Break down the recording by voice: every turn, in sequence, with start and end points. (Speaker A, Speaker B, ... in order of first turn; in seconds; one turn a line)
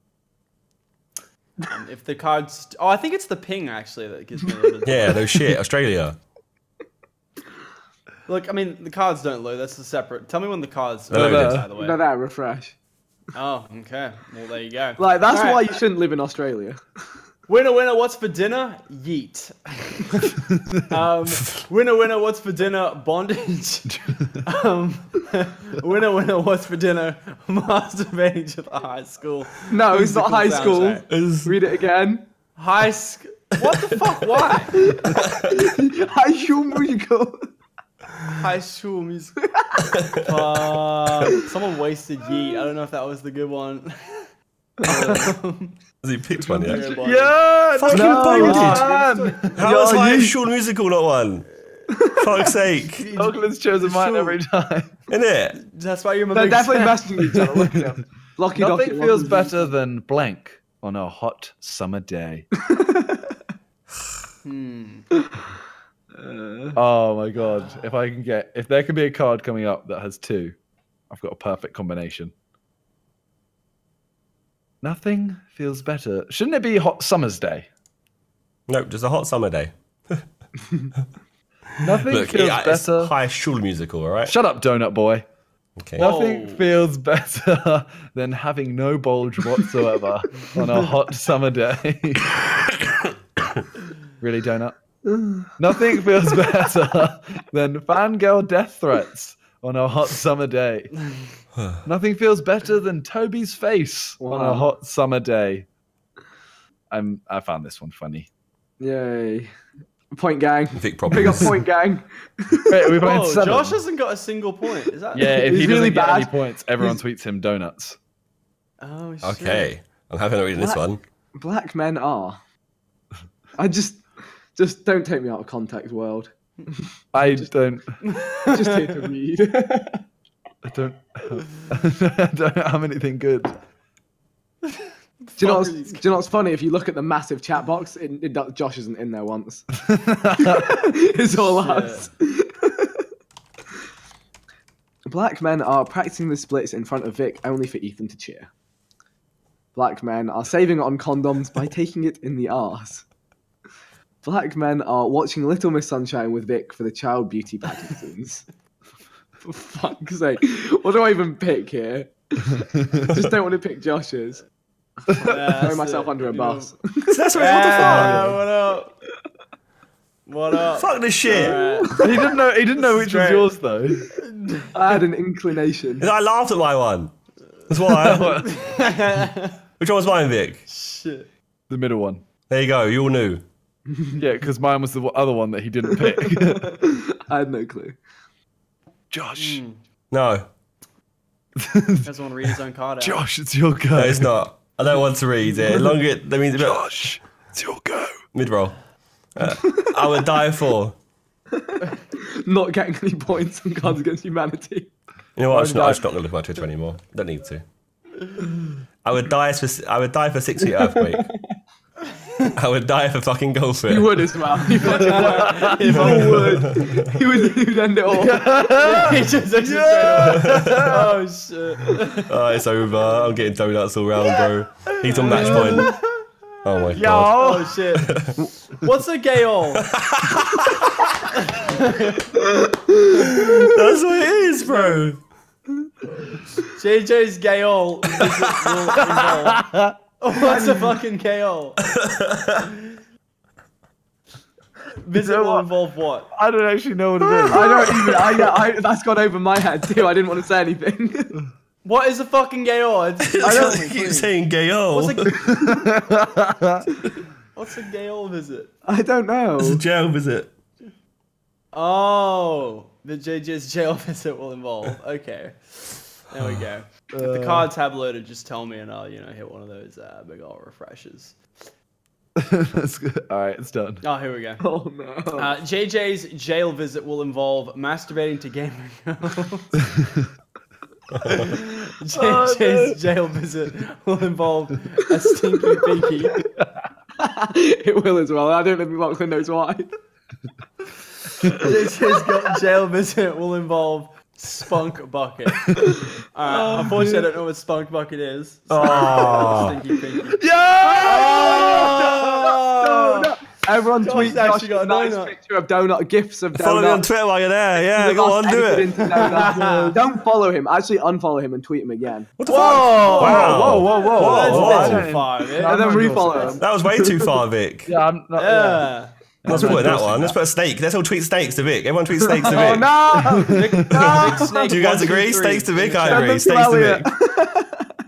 Speaker A: 1.7-5.3
Speaker B: 4.8-6.2
Speaker A: 8.3-12.0
Speaker B: 11.1-11.7
Speaker C: 11.1-11.7
Speaker D: 11.7-12.8
Speaker A: 13.3-15.8
Speaker D: 15.0-16.8
Speaker A: 17.5-20.3
Speaker A: 20.9-31.0
Speaker C: 23.9-24.3
Speaker D: 29.7-32.3
Speaker B: 31.0-31.6
Speaker A: 32.5-34.8
Speaker B: 35.1-35.5
Speaker D: 35.5-37.4
Speaker A: 38.4-39.4
Speaker D: 39.4-39.7
Speaker B: 40.0-40.3
Speaker A: 40.2-44.2
Speaker A: 44.8-45.8
Speaker B: 46.0-46.8
Speaker C: 46.5-49.5
Speaker A: 46.5-47.4
Speaker B: 47.8-48.9
Speaker D: 48.0-48.4
Speaker A: 48.0-49.7
Speaker B: 49.5-51.5
Speaker D: 49.6-50.4
Speaker B: 52.1-53.1
Speaker A: 52.8-54.4
Speaker C: 53.1-54.9
Speaker B: 55.1-55.6
Speaker A: 55.5-57.2
Speaker D: 56.3-59.6
Speaker C: 57.3-57.7
Speaker C: 58.6-62.5
Speaker D: 62.6-63.3
Speaker A: 64.4-65.1
Speaker D: 66.2-66.8
Speaker C: 66.7-70.5
Speaker C: 71.1-72.3
Speaker C: 74.8-77.7
Speaker B: 78.7-80.2
Speaker B: 81.8-84.3
Speaker C: 81.8-83.1
Speaker C: 84.2-85.2
Speaker B: 85.8-86.1
Speaker C: 86.0-92.3
Speaker A: 86.0-86.7
Speaker B: 92.6-92.9
Speaker C: 94.2-94.8
Speaker D: 95.0-95.5
Speaker C: 95.6-100.9
Speaker C: 101.8-105.7
Speaker D: 104.2-104.7
Speaker C: 106.9-108.3
Speaker D: 108.8-109.5
Speaker D: 110.1-113.0
Speaker B: 110.7-111.6
Speaker C: 112.7-113.8
Speaker A: 112.9-115.4
Speaker C: 115.1-118.0
Speaker D: 115.3-117.0
Speaker A: 118.8-119.7
Speaker B: 119.2-121.0
Speaker D: 120.5-120.8
Speaker D: 121.3-122.4
Speaker D: 123.6-127.5
Speaker C: 127.1-128.0
Speaker A: 128.2-129.1
Speaker D: 128.4-130.0
Speaker C: 130.6-133.6
Speaker A: 135.3-136.2
Speaker D: 135.4-139.7
Speaker C: 139.9-140.4
Speaker D: 140.3-143.0
Speaker A: 141.3-142.1
Speaker D: 145.1-148.5
Speaker D: 149.7-153.1
Speaker D: 154.2-158.5
Speaker D: 159.4-162.6
Speaker B: 163.1-163.3
Speaker D: 163.1-164.4
Speaker A: 165.2-166.7
Speaker D: 165.5-167.2
Speaker B: 167.1-168.2
Speaker A: 167.3-168.9
Speaker C: 167.8-168.4
Speaker A: 170.2-173.6
Speaker B: 170.7-171.6
Speaker D: 171.6-172.2
Speaker C: 171.9-174.1
Speaker A: 174.2-175.0
Speaker D: 174.7-176.1
Speaker B: 176.0-177.1
Speaker B: 177.7-178.4
Speaker C: 178.0-178.5
Speaker A: 178.4-179.6
Speaker B: 179.8-180.6
Speaker A: 180.7-181.3
Speaker C: 181.7-182.2
Speaker B: 182.5-183.4
Speaker C: 184.2-186.8
Speaker D: 186.3-187.9
Speaker C: 189.1-189.6
Speaker A: 189.3-189.8
Speaker B: 190.1-190.5
Speaker C: 191.6-192.1
Speaker A: 192.0-193.3
Speaker C: 193.0-194.3
Speaker B: 193.9-196.9
Speaker C: 195.6-195.9
Speaker C: 196.6-198.2
Speaker B: 198.3-198.8
Speaker B: 199.3-201.0
Speaker D: 202.4-204.9
Speaker B: 205.3-207.6
Speaker C: 205.5-206.0
Speaker B: 209.0-211.2
Speaker B: 212.6-214.2
Speaker D: 213.9-218.5
Speaker A: 214.8-216.5
Speaker C: 215.8-216.4
Speaker B: 215.9-217.2
Speaker C: 218.1-221.1
Speaker A: 218.7-222.4
Speaker B: 220.3-220.9
Speaker B: 222.2-225.9
Speaker A: 225.0-226.2
Speaker C: 225.3-225.9
Speaker B: 226.6-227.5
Speaker C: 226.9-227.8
Speaker A: 227.3-229.8
Speaker B: 228.0-228.4
Speaker B: 229.8-231.1
Speaker A: 231.5-232.3
Speaker B: 233.2-235.2
Speaker A: 234.7-234.9
Speaker A: 236.7-239.7
Speaker B: 238.3-239.0
Speaker C: 239.3-239.9
Speaker A: 240.2-241.8
Speaker D: 240.5-240.9
Speaker B: 241.8-242.6
Speaker A: 245.0-246.3
Speaker C: 245.2-245.7
Speaker C: 246.3-248.3
Speaker B: 247.2-248.4
Speaker D: 247.5-251.3
Speaker A: 251.8-254.3
Speaker B: 253.2-255.5
Speaker A: 254.9-255.3
Speaker C: 255.5-256.8
Speaker D: 255.6-255.9
Speaker A: 257.5-258.7
Speaker D: 258.8-259.8
Speaker B: 259.6-260.5
Speaker A: 261.7-271.4
Speaker C: 267.1-267.7
Speaker C: 272.4-274.0
Speaker A: 274.0-274.6
Speaker D: 274.6-275.5
Speaker A: 275.3-279.7
Speaker B: 281.1-281.5
Speaker A: 281.3-286.4
Speaker C: 282.1-283.0
Speaker D: 287.2-289.9
Speaker A: 291.6-295.7
Speaker A: 296.3-300.5
Speaker C: 296.5-297.2
Speaker B: 298.7-299.8
Speaker C: 300.3-302.0
Speaker D: 300.9-307.1
Speaker A: 301.0-303.3
Speaker A: 304.0-305.4
Speaker B: 306.5-309.0
Speaker D: 307.9-312.8
Speaker A: 308.9-310.0
Speaker B: 312.4-315.1
Speaker A: 312.4-315.8
Speaker C: 313.0-316.6
Speaker D: 315.6-317.4
Speaker B: 316.5-317.9
Speaker C: 317.9-318.9
Speaker A: 318.4-319.1
Speaker C: 319.4-320.4
Speaker B: 319.4-322.9
Speaker D: 319.5-319.8
Speaker D: 322.2-324.7
Speaker C: 323.2-323.6
Speaker A: 323.5-326.3
Speaker B: 323.9-327.1
Speaker D: 326.1-327.9